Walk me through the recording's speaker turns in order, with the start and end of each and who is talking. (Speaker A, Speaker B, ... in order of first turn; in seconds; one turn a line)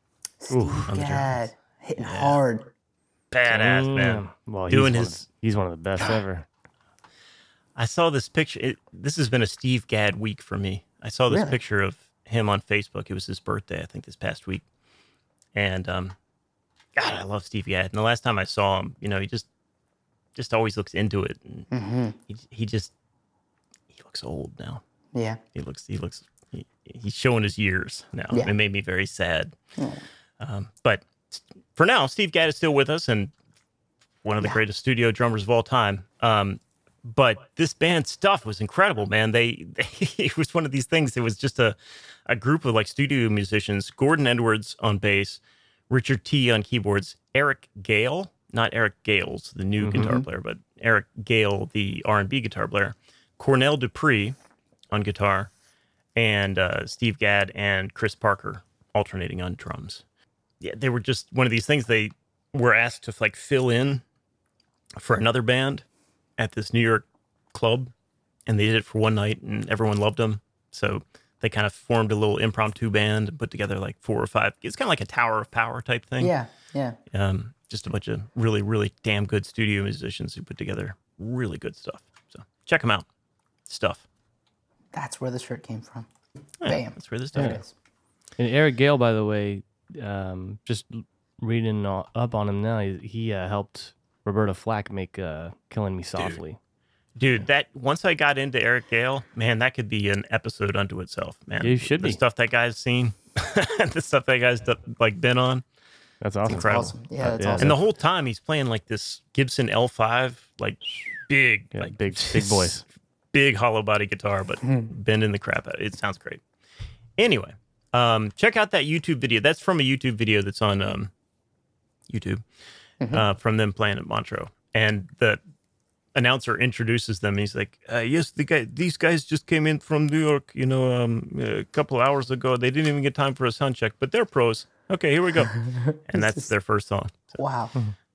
Speaker A: 0.4-2.7
Speaker B: 0.5-0.9
Speaker C: 0.9-1.4
Speaker C: 2.0-2.4
Speaker C: 3.3-5.2
Speaker B: 3.5-6.5
Speaker C: 7.8-14.6
Speaker A: 11.3-11.6
Speaker C: 15.5-16.1
Speaker C: 16.9-19.5
Speaker C: 20.3-21.7
Speaker A: 21.7-22.1
Speaker C: 22.3-22.9
Speaker C: 23.9-24.8
Speaker A: 25.1-25.4
Speaker C: 25.5-29.5
Speaker A: 29.8-30.0
Speaker C: 30.4-33.3
Speaker C: 34.2-54.4
Speaker B: 49.8-50.1
Speaker A: 49.9-50.2
Speaker C: 54.9-55.5
Speaker C: 56.1-60.0
Speaker C: 60.6-64.0
Speaker C: 65.0-65.8
Speaker C: 66.4-67.9
Speaker C: 68.5-76.3
Speaker A: 76.2-77.0
Speaker C: 77.1-83.1
Speaker C: 83.7-84.0
Speaker A: 84.9-86.1
Speaker C: 86.6-87.6
Speaker A: 86.6-87.7
Speaker B: 88.4-96.6
Speaker C: 97.2-105.6
Speaker B: 101.6-102.2
Speaker B: 106.2-106.8
Speaker A: 106.5-107.7
Speaker C: 106.5-112.8
Speaker B: 107.3-107.8
Speaker B: 111.7-112.8
Speaker C: 113.3-116.4
Speaker A: 114.6-114.9
Speaker C: 117.2-121.1
Speaker C: 122.1-122.4
Speaker C: 123.1-125.4
Speaker C: 126.1-137.4
Speaker A: 135.6-136.5
Speaker A: 137.4-137.7